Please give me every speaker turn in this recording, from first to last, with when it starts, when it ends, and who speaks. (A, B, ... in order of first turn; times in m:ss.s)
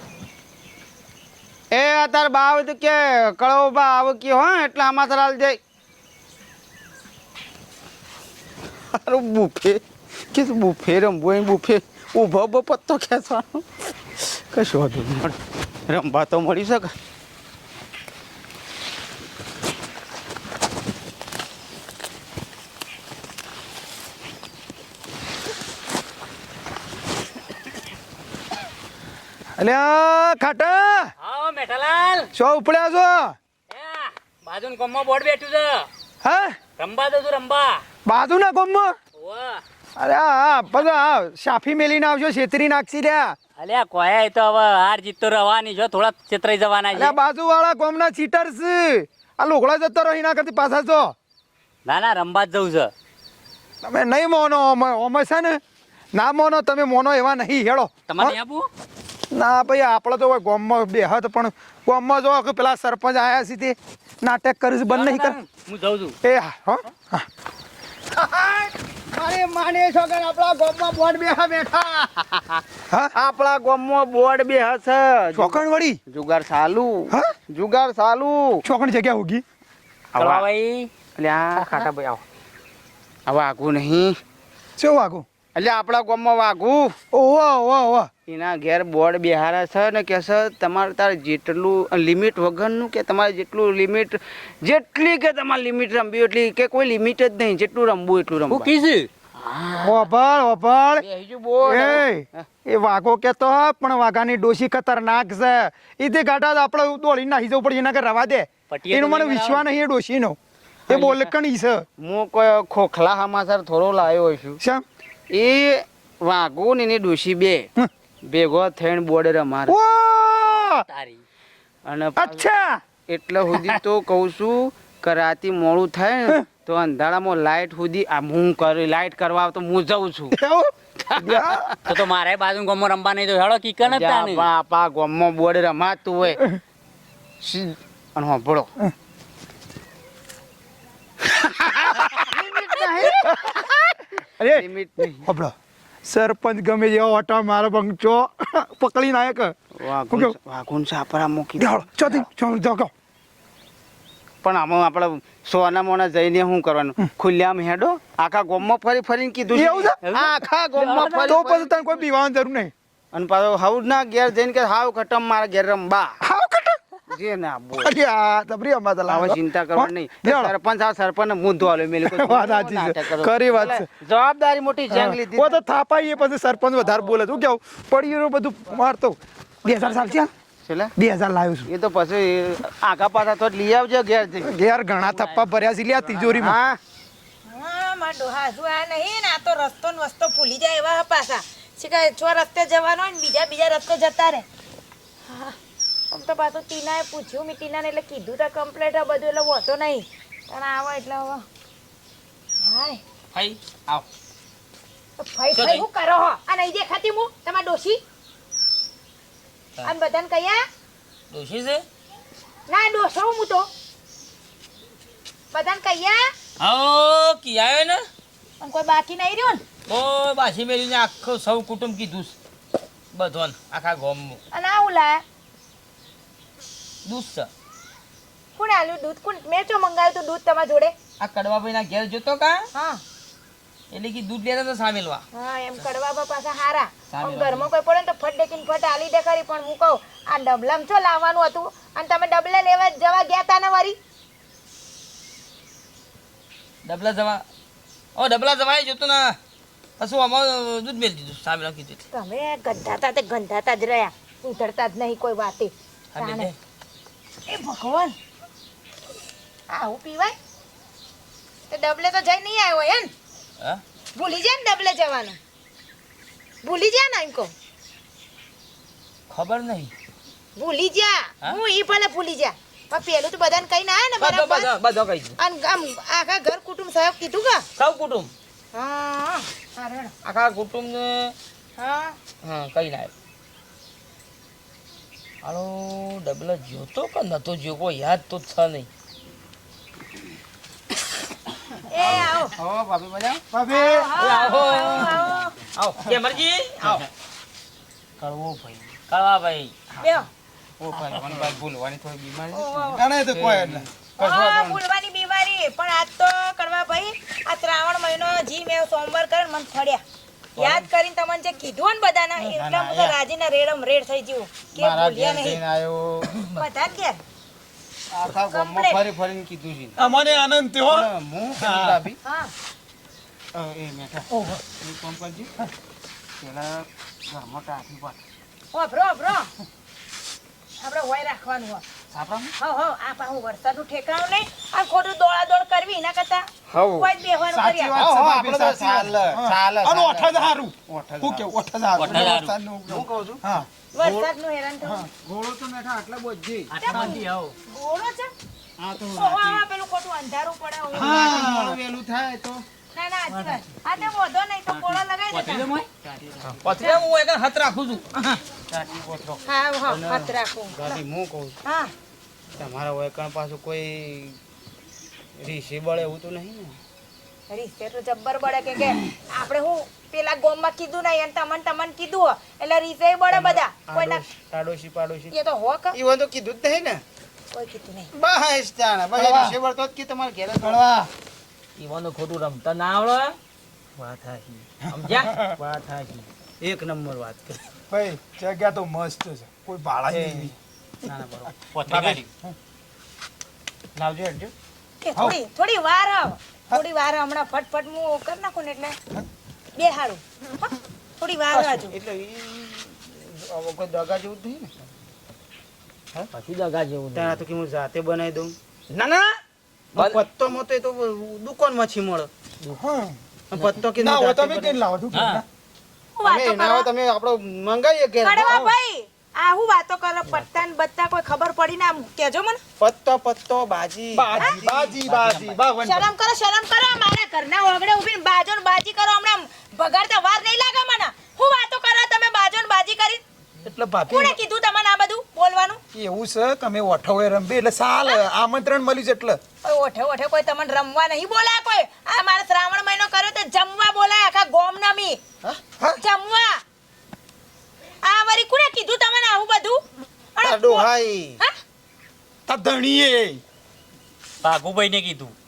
0:01.7-0:05.6 A
0:08.9-0:09.8 A
0:10.3-0:15.4 A
0:15.9-0:16.9 A
0:29.6-0:31.1 B
0:31.2-0:32.3 C
0:32.3-0:33.3 B
0:33.7-0:35.9 C
0:36.2-0:36.6 B
0:36.8-0:37.8 C
0:38.0-0:38.9 B
0:39.2-0:39.6 C
0:40.0-0:43.4 B
0:43.6-0:47.1 C
0:46.9-0:51.1 B
0:51.9-0:52.9 C
0:53.8-0:55.6 B
0:56.1-0:58.4 B
0:58.1-0:58.7 C
0:59.3-1:05.4 B
1:04.9-1:06.1 C
1:06.2-1:07.3 B
1:08.1-1:12.6 A
1:12.9-1:13.1 B
1:13.1-1:18.6 A
1:15.3-1:16.0 B
1:17.1-1:17.3 B
1:18.6-1:19.4 B
1:20.1-1:20.5 A
1:20.2-1:20.9 C
1:21.1-1:21.9 A
1:21.6-1:22.1 C
1:23.3-1:24.2 A
1:24.8-1:25.2 B
1:25.5-1:27.0 A
1:27.1-1:28.1 B
1:28.3-1:38.7 A
1:38.5-1:39.1 C
1:39.4-1:40.0 A
1:39.8-1:41.0 B
1:41.1-1:42.5 A
1:41.6-1:50.4 B
1:48.7-1:49.6 C
1:50.9-1:51.8 B
1:50.9-1:51.3 A
1:52.0-1:54.6 A
1:55.3-1:57.7 A
1:58.2-1:59.8 A
1:59.7-2:00.8 B
2:00.5-2:01.2 C
2:01.8-2:02.4 A
2:02.2-2:02.8 B
2:03.1-2:10.4 A
2:10.3-2:11.7 B
2:11.1-2:11.8 A
2:11.8-2:14.5 C
2:13.8-2:16.4 A
2:17.4-2:18.7 A
2:21.3-2:23.7 A
2:23.0-2:23.7 B
2:24.4-2:25.5 B
2:24.4-2:25.3 A
2:26.0-2:29.5 B
2:29.7-2:32.2 A
2:30.1-2:30.4 B
2:31.6-2:32.9 B
2:34.4-2:42.0 A
2:39.5-2:40.3 B
2:40.8-2:41.4 C
2:41.2-2:42.7 B
2:43.1-2:46.2 A
2:46.2-2:46.8 B
2:47.1-2:48.0 A
2:47.8-2:50.5 B
2:49.1-2:55.6 A
2:52.0-2:53.9 B
2:54.9-3:00.3 B
3:00.6-3:00.9 A
3:01.0-3:01.7 B
3:01.7-3:05.4 A
3:04.4-3:06.6 B
3:06.0-3:06.8 A
3:07.4-3:14.4 D
3:15.2-3:15.6 D
3:16.1-3:21.4 D
3:22.6-3:23.0 D
3:23.3-3:24.0 E
3:25.2-3:28.0 D
3:25.5-3:25.8 E
3:29.8-3:30.6 D
3:31.3-3:31.8 E
3:32.7-3:33.7 D
3:35.5-3:36.3 D
3:36.6-3:38.0 E
3:38.6-3:39.6 D
3:39.9-3:42.3 E
3:43.1-3:44.4 E
3:44.5-3:45.2 D
3:47.0-3:47.5 E
3:48.6-3:50.9 D
3:51.2-3:52.7 E
3:52.7-3:53.0 D
3:53.9-3:55.2 E
3:55.3-4:04.0 D
3:57.1-3:57.7 E
4:06.8-4:07.4 E
4:08.2-4:09.4 E
4:10.0-4:12.0 E
4:12.1-4:16.5 D
4:16.1-4:16.5 E
4:17.5-4:18.2 D
4:19.7-4:20.3 D
4:21.7-4:23.1 D
4:24.2-4:25.4 D
4:26.6-4:27.5 D
4:29.3-4:29.9 E
4:30.6-4:34.7 D
4:34.2-4:35.4 E
4:35.4-4:37.6 D
4:37.8-4:38.3 E
4:38.7-4:40.1 D
4:40.2-4:41.3 E
4:41.8-4:42.2 D
4:42.4-4:43.1 E
4:45.4-4:48.9 E
4:51.9-4:52.6 D
4:52.0-4:53.4 A
4:53.5-4:54.1 B
4:53.7-4:55.6 D
4:54.2-4:57.1 E
4:58.2-4:58.9 A
4:59.1-4:59.7 E
5:00.0-5:00.3 D
5:00.8-5:04.8 A
5:02.5-5:03.0 D
5:02.9-5:03.8 B
5:04.2-5:10.0 D
5:10.6-5:10.8 A
5:10.6-5:15.6 D
5:12.4-5:13.2 A
5:14.8-5:16.3 A
5:16.5-5:17.2 D
5:18.1-5:20.0 A
5:18.5-5:19.0 D
5:20.0-5:22.0 B
5:20.9-5:22.2 A
5:22.2-5:22.5 D
5:23.5-5:25.5 A
5:26.4-5:28.2 A
5:28.7-5:29.5 D
5:30.8-5:31.8 D
5:32.1-5:32.5 A
5:32.6-5:38.0 D
5:36.7-5:37.1 A
5:37.5-5:43.7 B
5:37.9-5:41.5 A
5:42.0-5:42.5 C
5:42.0-5:42.3 A
5:42.9-5:43.4 A
5:43.9-5:45.1 D
5:44.0-5:44.3 A
5:44.8-5:45.1 B
5:45.1-5:47.0 A
5:46.7-5:47.5 C
5:46.8-5:48.3 D
5:48.8-5:49.6 A
5:49.1-5:51.5 D
5:50.9-5:51.8 B
5:50.9-5:52.6 A
5:52.9-5:55.7 D
5:53.3-5:53.6 C
5:54.8-5:56.6 C
5:56.6-5:58.4 E
5:58.7-6:01.6 A
5:59.4-6:01.0 D
6:01.6-6:01.9 D
6:02.6-6:04.4 A
6:05.4-6:06.8 A
6:07.5-6:14.2 D
6:13.3-6:15.3 A
6:15.3-6:16.0 D
6:15.9-6:17.0 A
6:17.5-6:18.1 D
6:18.1-6:20.8 A
6:19.1-6:19.6 B
6:20.6-6:21.1 B
6:21.8-6:23.4 E
6:24.0-6:24.7 A
6:24.8-6:25.6 B
6:24.9-6:25.4 E
6:25.6-6:27.6 A
6:27.9-6:30.5 B
6:30.1-6:32.2 A
6:31.7-6:32.2 C
6:31.9-6:32.5 B
6:34.0-6:34.5 A
6:35.0-6:39.0 D
6:39.8-6:41.9 D
6:41.5-6:44.8 A
6:46.3-6:47.4 E
6:47.1-6:48.5 A
6:48.9-6:49.4 E
6:49.9-6:52.3 A
6:52.8-6:53.2 B
6:53.5-6:54.8 A
6:53.9-6:55.4 B
6:56.2-6:56.9 D
6:56.2-6:58.6 A
6:58.2-7:02.6 D
6:58.4-6:58.7 B
7:02.8-7:05.0 A
7:04.1-7:06.1 B
7:05.8-7:13.2 D
7:13.6-7:14.4 B
7:14.0-7:15.8 D
7:15.9-7:19.4 B
7:19.6-7:25.2 D
7:26.0-7:26.6 D
7:28.0-7:29.8 D
7:30.4-7:30.9 D
7:30.4-7:31.4 A
7:32.5-7:33.4 B
7:34.4-7:35.3 C